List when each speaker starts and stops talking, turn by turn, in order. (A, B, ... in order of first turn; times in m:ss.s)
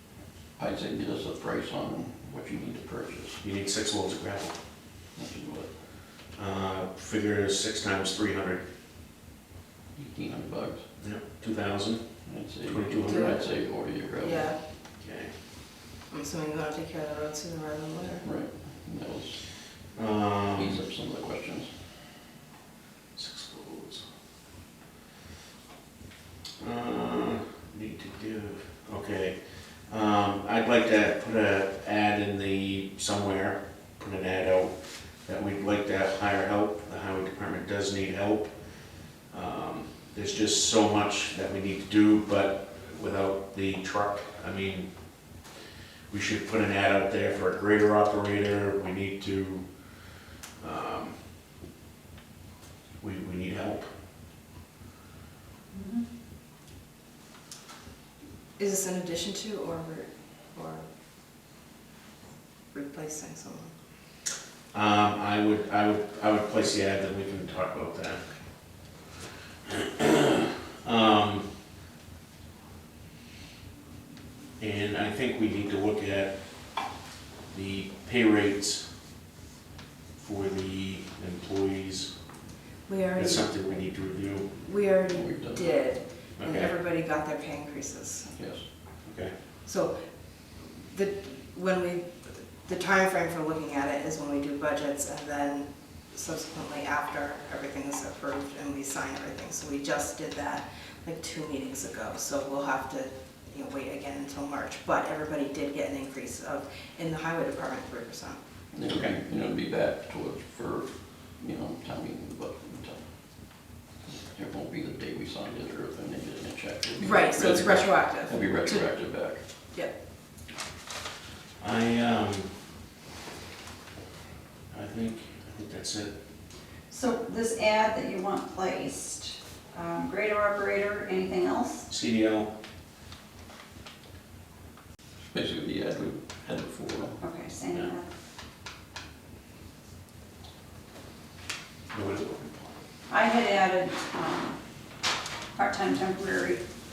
0:00.6-0:03.4 A
0:03.4-0:04.6 B
0:05.1-0:05.7 A
0:06.3-0:08.6 B
0:10.0-0:10.8 A
0:11.0-0:12.0 B
0:12.2-0:14.5 A
0:12.6-0:13.4 B
0:13.0-0:14.6 C
0:15.0-0:15.3 B
0:16.1-0:18.2 C
0:18.2-0:19.4 A
0:19.9-0:20.8 B
0:20.6-0:21.7 A
0:23.1-0:24.0 B
0:26.6-0:38.5 B
0:39.2-0:44.9 B
0:46.1-0:49.7 B
0:50.6-0:51.2 B
0:53.0-0:53.9 B
0:55.7-0:56.0 D
0:58.6-1:00.8 C
1:02.7-1:03.7 C
1:04.7-1:08.2 B
1:09.7-1:11.5 B
1:14.6-1:16.3 B
1:17.5-1:18.8 B
1:20.2-1:22.1 B
1:22.9-1:23.6 C
1:23.1-1:24.5 B
1:24.5-1:28.3 C
1:25.1-1:25.8 A
1:26.4-1:26.7 B
1:28.3-1:28.6 A
1:29.0-1:29.3 B
1:29.6-1:29.9 C
1:30.6-1:48.4 C
1:48.7-1:53.1 A
1:48.8-1:49.2 B
1:54.0-1:59.4 A
1:57.0-1:58.9 C
2:01.6-2:02.5 B
2:04.7-2:06.1 B
2:06.9-2:11.9 D
2:11.9-2:12.5 B
2:15.3-2:17.2 A
2:17.2-2:18.1 D
2:21.9-2:22.8 B
2:23.1-2:24.6 D
2:25.6-2:26.6 D